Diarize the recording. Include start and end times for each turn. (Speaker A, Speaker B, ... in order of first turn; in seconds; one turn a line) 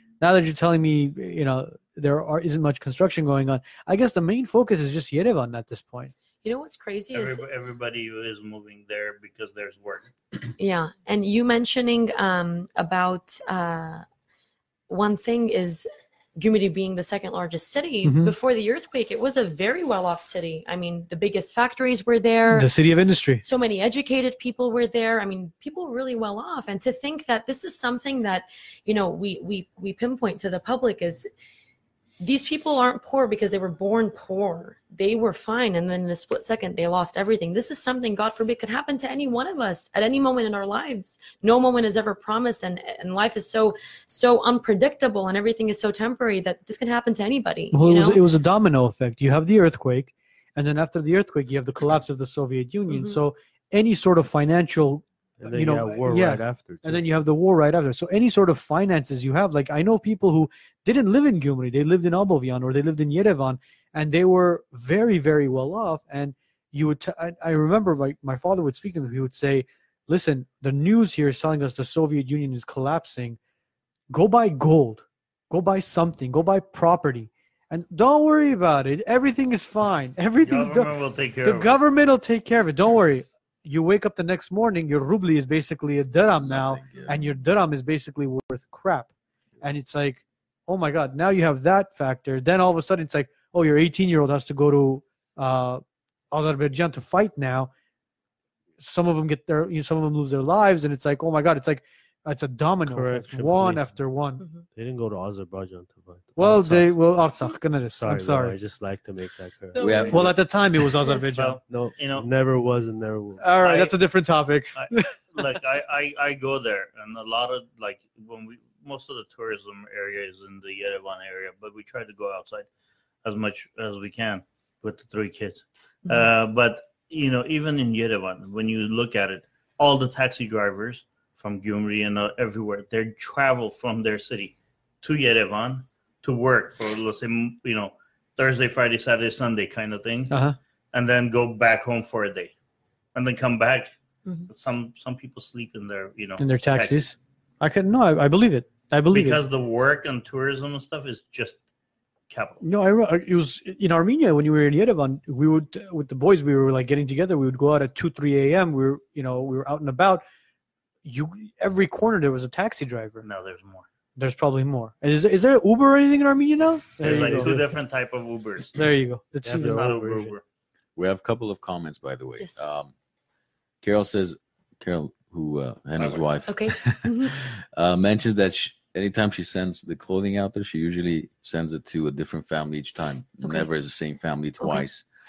Speaker A: 0.2-6.1
Speaker B: 6.4-7.5
Speaker C: 7.1-10.1
Speaker B: 10.6-14.1
Speaker B: 14.9-22.7
Speaker A: 18.1-18.4
Speaker A: 22.5-23.4
Speaker B: 23.4-31.3
Speaker B: 32.2-48.2
Speaker A: 47.7-73.4
Speaker B: 52.9-53.2
Speaker D: 55.4-57.0
Speaker A: 74.1-89.1
Speaker C: 80.4-81.8
Speaker E: 86.4-87.2
Speaker A: 89.6-97.7
Speaker A: 98.8-104.5
Speaker D: 102.9-104.0
Speaker D: 104.8-107.0
Speaker A: 106.4-108.6
Speaker D: 108.0-110.4
Speaker B: 109.7-110.3
Speaker E: 109.8-110.4
Speaker A: 110.1-111.6
Speaker B: 111.0-111.3
Speaker C: 111.2-112.3
Speaker D: 111.7-113.7
Speaker A: 113.4-115.2
Speaker C: 113.6-114.0
Speaker C: 114.8-122.7
Speaker C: 123.2-140.3
Speaker A: 140.3-140.6
Speaker C: 140.9-142.5
Speaker C: 143.1-144.0
Speaker C: 144.5-147.1
Speaker A: 146.4-149.4
Speaker C: 149.1-151.6
Speaker C: 152.3-152.6
Speaker A: 152.6-160.2
Speaker A: 161.0-163.3
Speaker C: 163.2-163.9
Speaker A: 164.2-167.7
Speaker C: 167.0-168.9
Speaker D: 167.0-167.7
Speaker A: 168.8-169.8
Speaker D: 169.4-170.3
Speaker C: 169.5-170.4
Speaker E: 171.0-172.9
Speaker E: 173.8-185.1
Speaker B: 176.5-177.4
Speaker B: 183.4-183.7
Speaker B: 184.6-184.9